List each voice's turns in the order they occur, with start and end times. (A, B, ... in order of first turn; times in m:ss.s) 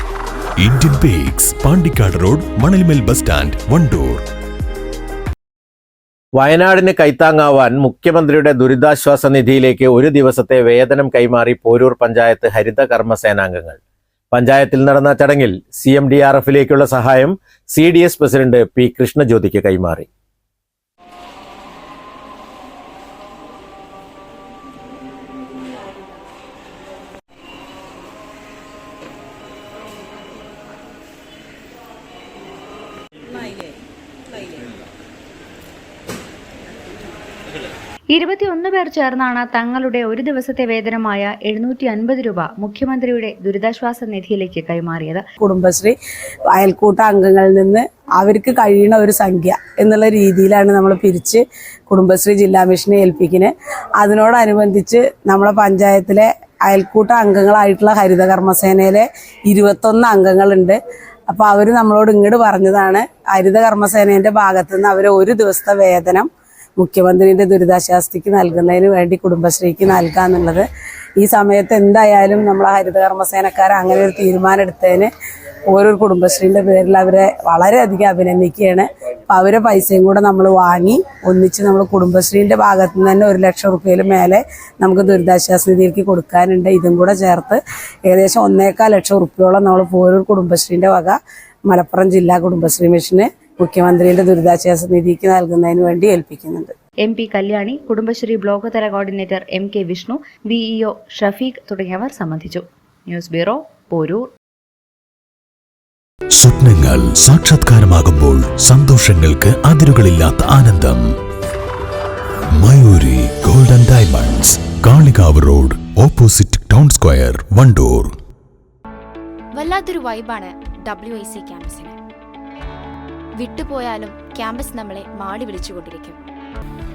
0:00.6-0:04.2 A
0:06.4-0:13.8 B
0:14.3-0:20.1 B
0:38.1-0:45.2 C
0:45.4-0:46.0 D
0:46.5-1:10.7 D
1:11.2-1:15.1 D
1:15.7-1:36.7 D
1:37.0-1:44.2 C
1:46.3-1:51.0 A
1:52.5-1:58.1 A
1:59.6-2:02.0 E
2:03.4-2:06.2 E